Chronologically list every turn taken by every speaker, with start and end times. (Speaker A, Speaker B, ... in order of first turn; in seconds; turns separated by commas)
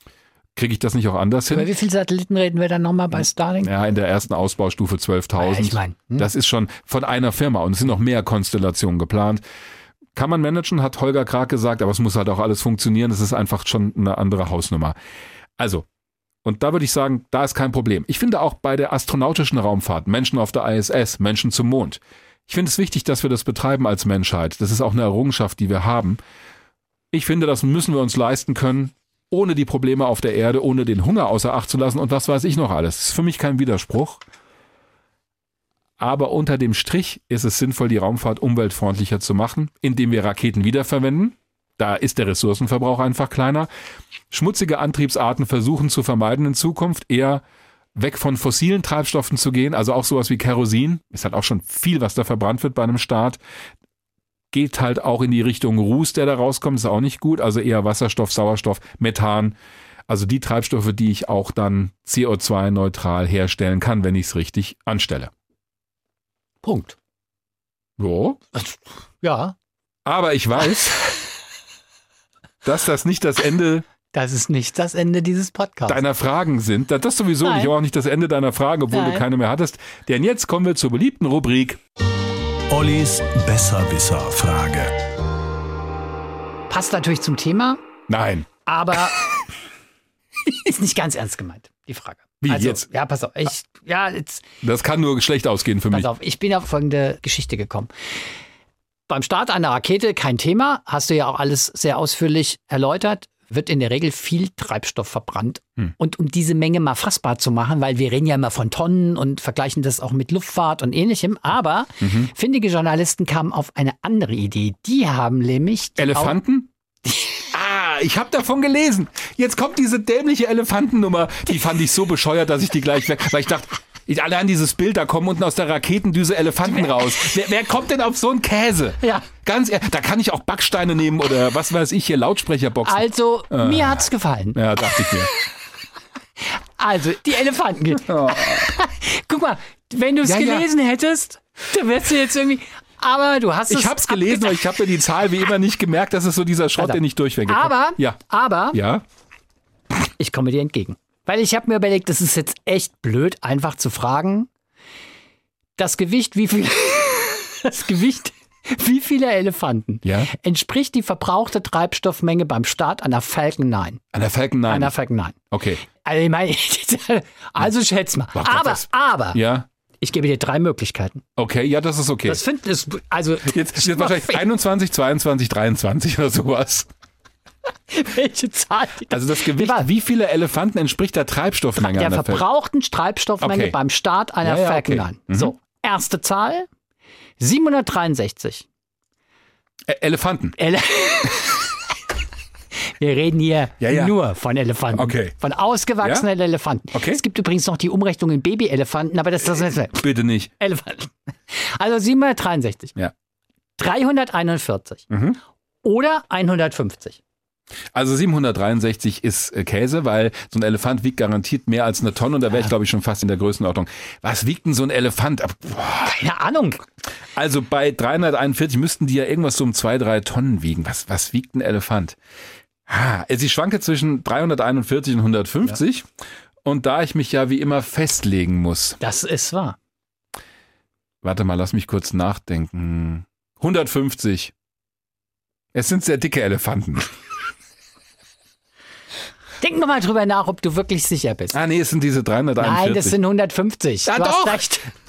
Speaker A: 0.6-1.7, Speaker B: 1.5-3.7, Speaker A: 3.6-9.4, Speaker B: 5.4-6.3, Speaker A: 10.2-15.0, Speaker A: 15.6-15.9, Speaker A: 16.4-26.2, Speaker A: 27.1-34.2, Speaker A: 36.0-43.7, Speaker A: 44.3-47.4, Speaker A: 48.0-53.4, Speaker A: 54.5-59.5, Speaker A: 60.1-65.3, Speaker B: 66.6-67.0, Speaker A: 68.0-68.5, Speaker B: 68.5-69.5, Speaker A: 70.0-71.3, Speaker A: 72.6-73.9, Speaker B: 74.1-76.0, Speaker A: 75.9-81.8, Speaker B: 77.4-77.7, Speaker B: 78.9-79.2, Speaker C: 82.7-85.0, Speaker B: 86.7-87.8, Speaker A: 88.1-88.5, Speaker B: 88.7-89.4, Speaker B: 90.4-94.5, Speaker A: 92.4-92.8, Speaker A: 94.6-96.1, Speaker B: 95.9-97.9, Speaker B: 99.1-116.4, Speaker A: 112.0-112.3, Speaker A: 116.0-116.7, Speaker A: 117.5-135.3, Speaker B: 126.7-127.3, Speaker B: 129.0-129.3, Speaker B: 132.8-134.6, Speaker B: 136.4-144.6, Speaker A: 138.1-138.7, Speaker A: 140.2-140.7, Speaker A: 143.7-148.2, Speaker B: 146.8-148.8, Speaker A: 148.7-149.0, Speaker B: 150.2-154.5, Speaker B: 155.8-164.0, Speaker A: 160.0-160.3, Speaker A: 164.1-164.9, Speaker B: 164.7-165.4, Speaker A: 165.5-165.8, Speaker B: 166.0-169.4, Speaker A: 168.3-168.8, Speaker A: 169.3-169.7, Speaker B: 170.0-171.2, Speaker A: 171.4-172.4, Speaker B: 172.3-174.4, Speaker A: 173.5-176.9, Speaker B: 177.9-179.9, Speaker A: 179.1-182.4, Speaker B: 181.8-186.7, Speaker A: 183.4-183.8, Speaker A: 184.4-185.5, Speaker B: 187.4-188.7, Speaker A: 189.9-190.6, Speaker B: 190.6-191.7, Speaker B: 193.0-200.0, Speaker A: 193.8-194.2, Speaker A: 194.9-195.3, Speaker A: 196.0-196.3, Speaker A: 196.9-197.2, Speaker A: 199.9-200.5, Speaker B: 200.6-203.0, Speaker B: 203.8-205.1, Speaker A: 205.1-205.4, Speaker B: 205.8-207.2, Speaker A: 207.9-216.2, Speaker B: 216.0-216.8, Speaker A: 217.3-222.2, Speaker A: 222.9-226.1, Speaker A: 226.6-229.0, Speaker B: 229.0-229.8, Speaker A: 231.2-234.5, Speaker A: 235.7-237.1, Speaker B: 239.6-241.6, Speaker A: 241.5-243.2, Speaker B: 242.6-244.9, Speaker A: 244.1-244.7